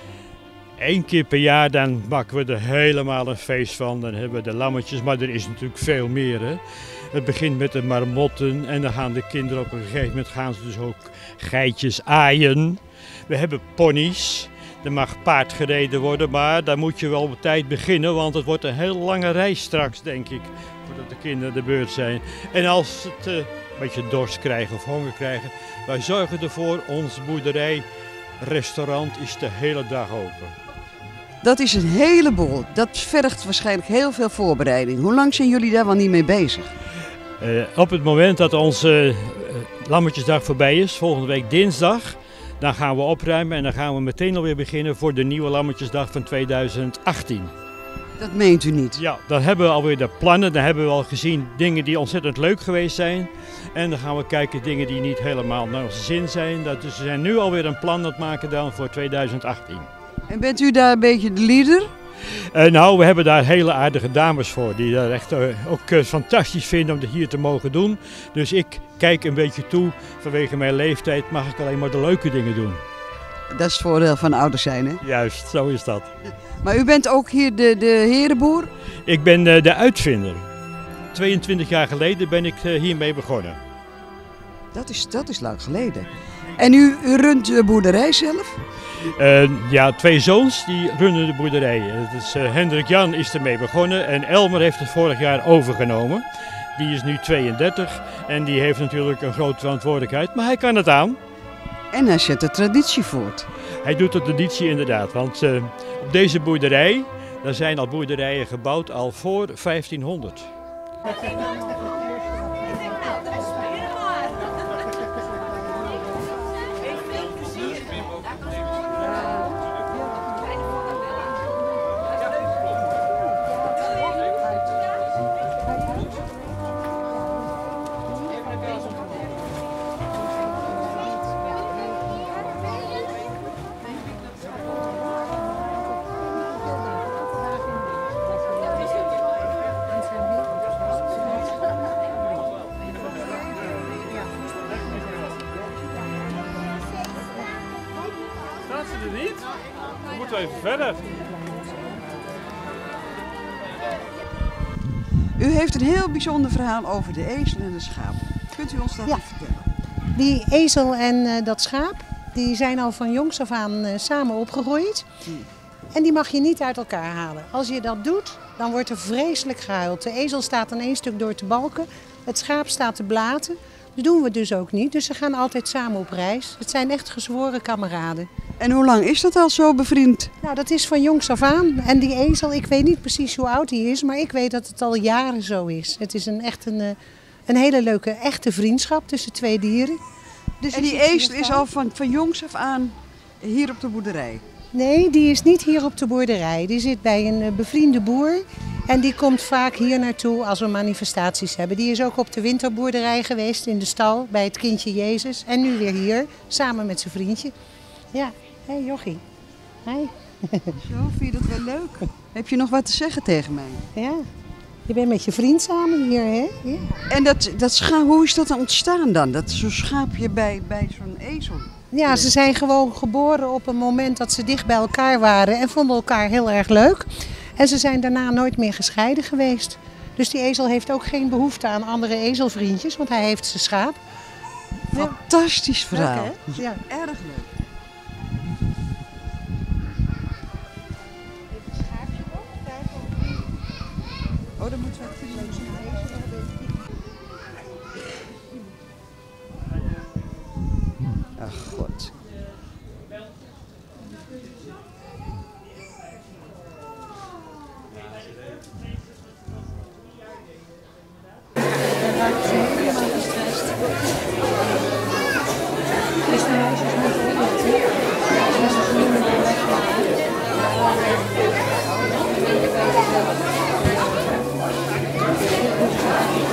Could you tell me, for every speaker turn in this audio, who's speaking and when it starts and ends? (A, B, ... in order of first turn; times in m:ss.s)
0:00.8-0:06.6 A
0:07.1-0:27.8 A
0:28.4-0:30.6 A
0:31.4-0:36.8 B
0:37.4-0:47.5 A
0:48.2-0:49.0 B
0:49.0-0:59.9 A
1:00.3-1:01.9 B
1:02.2-1:12.8 A
1:13.5-1:15.0 B
1:15.0-1:16.1 A
1:16.6-1:18.7 B
1:19.1-1:20.4 A
1:21.1-1:23.6 A
1:24.7-1:28.6 B
1:29.0-1:41.2 A
1:41.9-1:43.5 B
1:43.8-1:50.5 A
2:19.9-2:20.5 C
2:30.4-2:31.0 A
2:35.4-2:39.7 B
2:40.1-2:45.1 C
2:45.9-2:58.3 C
2:58.6-3:00.3 B
3:00.4-3:10.0 C
3:10.6-3:11.6 C
3:10.7-3:14.4 B
3:14.7-3:27.5 C
3:28.1-3:29.2 C
3:29.8-3:30.8 C
3:30.8-3:33.8 B
3:34.0-3:34.2 C
3:34.9-3:37.0 C
3:37.1-3:42.3 B
3:41.9-3:54.0 C
3:54.9-3:57.5 B
3:55.9-3:56.8 C
4:04.6-4:06.1 B
4:11.4-4:12.1 B
4:22.2-4:23.4 C
4:26.3-4:27.7 C
4:28.5-4:29.8 C